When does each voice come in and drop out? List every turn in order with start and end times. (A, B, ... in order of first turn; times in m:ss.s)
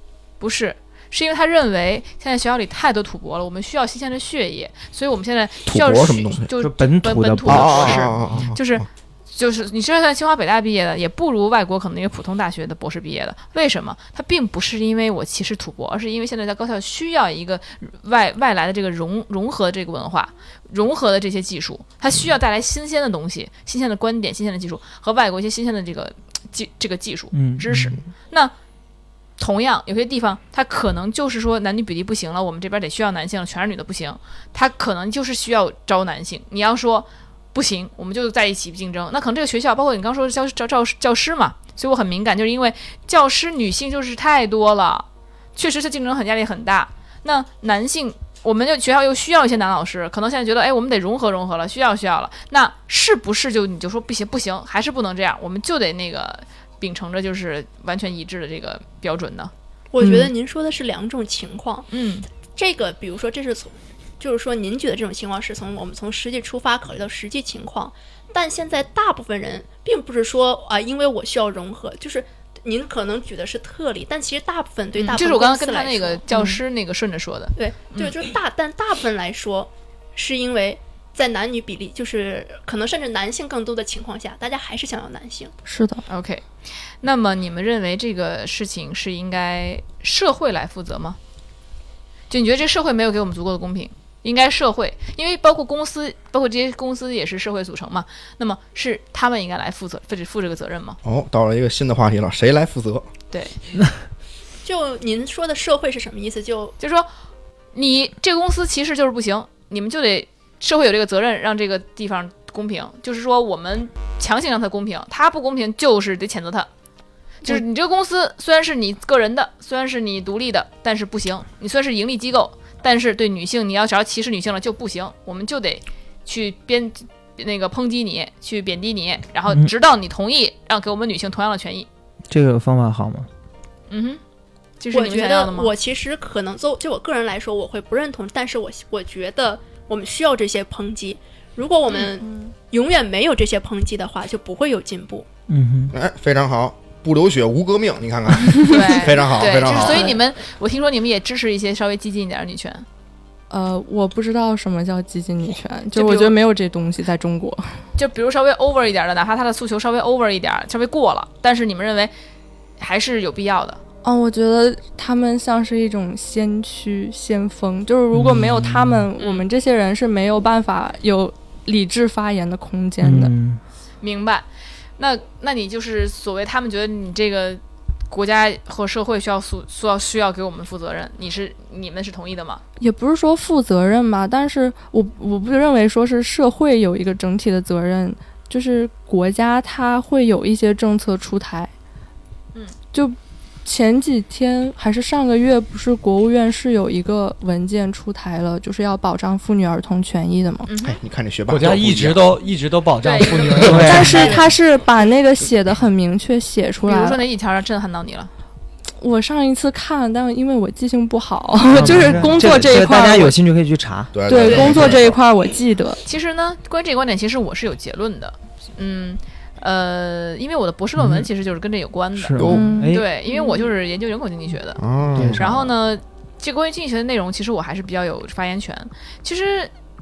0:00.4-0:28.5 A
0:05.7-0:06.5 B
0:06.6-0:08.5 C
0:07.5-0:08.8 B
0:27.3-0:27.9 C
0:29.4-0:59.5 A
0:59.9-1:01.8 D
1:00.0-1:00.3 E
1:01.9-1:02.2 A
1:02.6-1:16.2 D
1:15.0-1:18.2 A
1:16.3-1:16.6 E
1:17.6-1:25.5 D
1:25.6-1:26.0 E
1:26.1-1:26.5 A
1:27.0-1:31.2 A
1:32.3-1:41.0 A
1:41.0-1:43.1 B
1:43.3-1:43.6 A
1:44.6-1:46.7 D
1:46.8-1:47.1 A
1:47.7-1:56.7 A
1:57.4-2:11.9 A
2:12.3-2:13.3 C
2:13.9-2:14.2 A
2:14.8-2:15.7 A
2:14.9-2:25.3 D
2:25.5-2:25.9 C
2:25.9-2:30.2 B
2:28.6-2:32.8 A
2:33.5-2:37.7 E
2:35.9-2:36.4 A
2:38.0-2:42.1 A
2:42.8-2:43.8 A
2:44.0-2:53.3 E
2:48.1-2:49.1 C
2:49.2-2:49.4 A
2:53.0-2:53.6 C
2:54.0-2:54.4 A
2:55.0-3:02.6 A
3:02.8-3:11.7 E
3:12.9-3:20.7 E
3:20.7-3:21.0 A
3:20.8-3:22.3 B
3:21.5-3:24.2 F
3:23.0-3:24.4 A
3:23.6-3:24.3 C
3:23.8-3:27.2 E
3:26.8-3:28.3 A
3:29.0-3:33.4 E
3:31.7-3:34.1 C
3:34.1-3:35.2 B
3:34.3-3:36.0 E
3:34.4-3:34.8 D
3:36.0-3:49.7 A
3:41.0-3:41.3 C
3:42.1-3:43.1 C
3:42.4-3:42.7 B
3:42.4-3:42.9 E
3:43.3-3:43.6 D
3:44.8-3:45.7 B
3:45.1-3:45.5 C